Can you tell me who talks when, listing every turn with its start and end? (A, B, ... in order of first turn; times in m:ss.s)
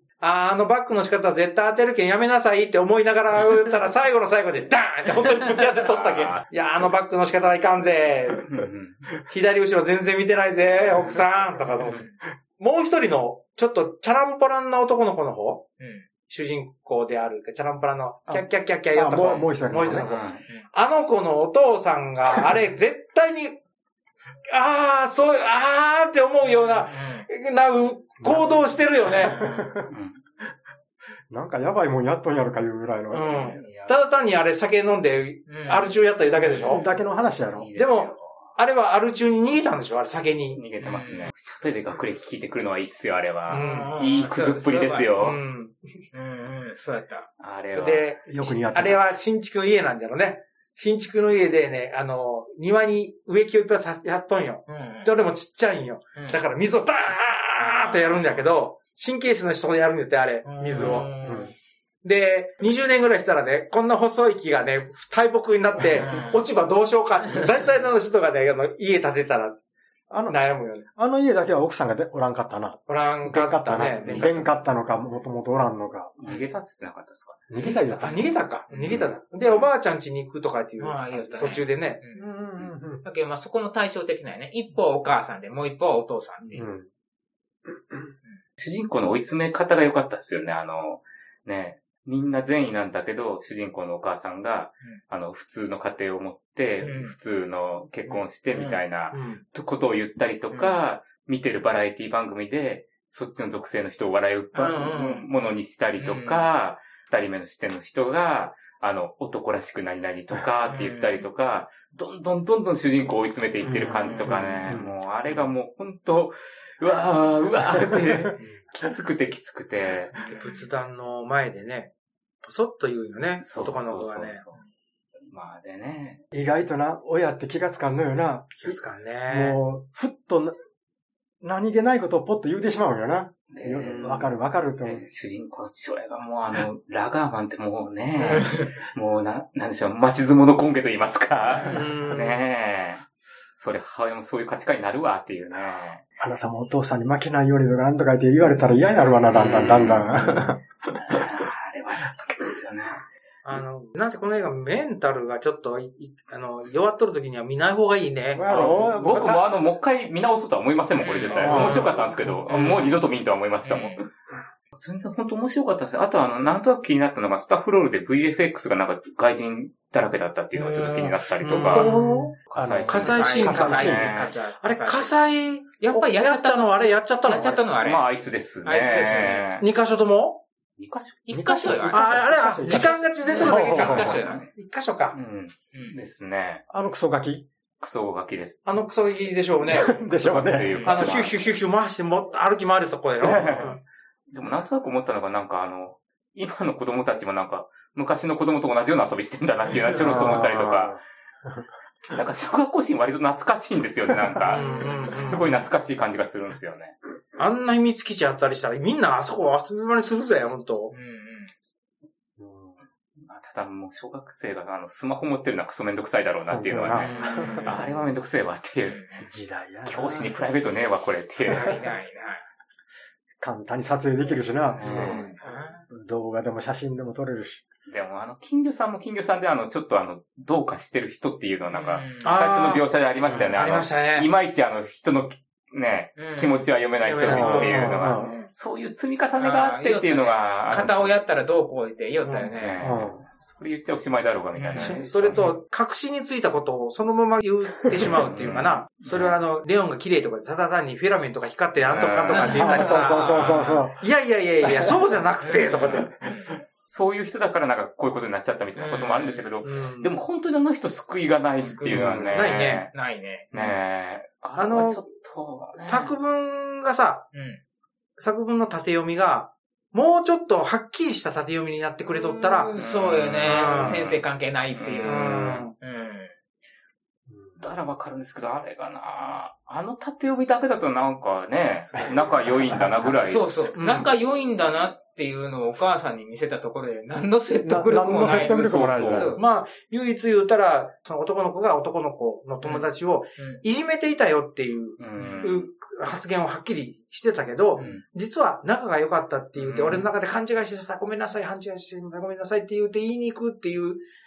0:00.2-0:08.5 A
0:05.5-0:06.4 B
0:08.4-0:09.1 B
0:09.3-0:15.7 A
0:11.8-0:12.1 C
0:15.8-0:16.0 C
0:16.3-0:23.6 A
0:18.3-0:20.1 D
0:19.9-0:20.4 B
0:24.5-0:29.6 A
0:26.8-0:27.3 C
0:28.2-0:29.9 D
0:29.3-0:29.7 C
0:29.9-0:30.2 B
0:31.3-0:33.6 D
0:33.1-0:36.8 A
0:33.6-0:33.9 C
0:35.5-0:35.9 C
0:36.5-0:37.7 D
0:37.5-0:38.5 B
0:37.7-0:40.6 A
0:40.5-0:45.4 B
0:40.8-0:41.3 C
0:43.5-0:43.9 A
0:43.5-0:45.1 C
0:45.2-0:45.8 A
0:46.1-0:47.3 C
0:47.4-0:48.1 B
0:47.7-1:01.1 A
0:48.2-0:49.0 D
0:54.7-0:55.1 C
0:57.6-0:58.2 C
1:00.4-1:01.5 C
1:00.8-1:01.5 D
1:02.0-1:09.6 A
1:05.8-1:06.4 C
1:10.1-1:10.4 D
1:10.3-1:10.8 A
1:10.9-1:16.1 D
1:12.9-1:14.6 A
1:16.2-1:17.7 B
1:16.2-1:16.5 C
1:17.5-1:18.3 D
1:18.0-1:22.0 A
1:18.7-1:19.0 C
1:18.9-1:19.7 B
1:20.8-1:22.2 C
1:22.1-1:23.0 D
1:23.0-1:26.6 C
1:26.5-1:26.9 D
1:27.7-1:28.1 D
1:28.6-2:00.2 B
1:36.8-1:37.1 C
1:38.0-1:38.8 C
1:39.1-1:39.4 A
1:40.5-1:40.8 C
1:44.5-1:45.2 C
1:46.0-1:46.5 C
1:50.7-1:51.2 C
1:53.6-1:54.9 D
1:54.0-1:54.5 C
2:00.2-2:01.9 A
2:00.2-2:00.5 C
2:02.4-2:04.4 A
2:03.4-2:04.6 B
2:05.2-2:06.2 B
2:06.3-2:10.6 D
2:08.6-2:09.6 A
2:11.4-2:15.0 D
2:13.5-2:26.0 B
2:18.3-2:18.7 C
2:21.6-2:22.4 A
2:26.2-2:31.3 D
2:29.3-2:33.0 B
2:33.4-2:38.9 A
2:38.3-2:39.4 D
2:38.5-2:44.1 B
2:41.0-2:41.9 C
2:41.4-2:42.0 D
2:41.4-2:42.1 A
2:42.5-2:43.0 C
2:43.6-2:44.0 C
2:44.7-2:51.9 B
2:50.6-2:52.3 C
2:51.4-2:52.3 A
2:52.5-2:54.1 D
2:52.5-2:54.3 B
2:52.9-2:57.6 A
2:53.0-2:55.1 C
2:55.8-2:58.0 C
2:57.8-2:59.6 B
2:58.6-2:59.5 C
2:59.6-3:00.4 A
3:00.8-3:01.2 B
3:01.2-3:04.5 C
3:01.3-3:04.2 D
3:01.9-3:05.2 A
3:03.3-3:04.5 B
3:05.1-3:06.6 B
3:06.7-3:07.4 D
3:07.8-3:08.6 B
3:08.6-3:10.0 A
3:09.7-3:10.8 D
3:10.0-3:11.4 B
3:10.6-3:11.0 C
3:10.8-3:13.8 A
3:13.2-3:13.8 B
3:14.3-3:21.0 B
3:19.8-3:21.6 D
3:22.1-3:27.0 B
3:24.1-3:25.6 D
3:24.5-3:25.6 A
3:27.4-3:30.9 A
3:30.9-3:31.5 C
3:32.4-3:32.8 D
3:33.2-3:39.0 B
3:36.5-3:37.8 D
3:36.9-3:37.9 C
3:38.9-3:39.2 C
3:39.2-3:40.4 D
3:39.8-3:41.8 B
3:41.4-3:42.4 C
3:43.4-3:45.1 D
3:44.8-3:45.3 B
3:44.8-3:45.8 C
3:44.8-3:45.4 A
3:45.9-3:47.6 D
3:47.9-4:01.2 B
3:51.7-3:52.3 C
3:52.2-3:54.3 A
3:56.2-3:56.6 C
3:57.0-3:58.5 A
3:57.2-3:58.3 D
3:57.4-3:57.8 C
3:59.4-4:02.9 C
4:02.2-4:02.5 A
4:02.5-4:05.4 B
4:02.8-4:03.2 D
4:04.5-4:05.6 C
4:04.7-4:16.3 A
4:08.0-4:09.4 B
4:11.9-4:12.8 B
4:12.3-4:13.9 C
4:12.5-4:14.0 D
4:14.6-4:15.0 D
4:15.6-4:16.0 B
4:16.2-4:16.5 C
4:16.9-4:22.9 B
4:18.8-4:19.5 C
4:19.6-4:20.1 A
4:21.6-4:23.7 C
4:21.9-4:22.3 D
4:22.3-4:22.9 A
4:23.5-4:26.1 B
4:24.6-4:25.0 A
4:25.7-4:27.3 A
4:27.3-4:27.6 C
4:28.2-4:32.8 A
4:32.2-4:36.3 C
4:32.8-4:34.2 B
4:33.4-4:34.1 A
4:34.7-4:35.6 B
4:35.0-4:35.7 A
4:37.3-4:37.6 D
4:37.6-4:43.6 B
4:41.9-4:43.1 D
4:43.2-4:49.4 C
4:43.8-4:44.1 A
4:47.6-4:49.3 D
4:48.2-4:49.3 B
4:49.3-5:04.0 A
4:52.6-4:53.6 C
4:55.0-4:55.7 B
4:55.1-4:55.5 C
4:57.7-4:58.0 C
4:59.6-5:00.0 B
4:59.8-5:00.0 C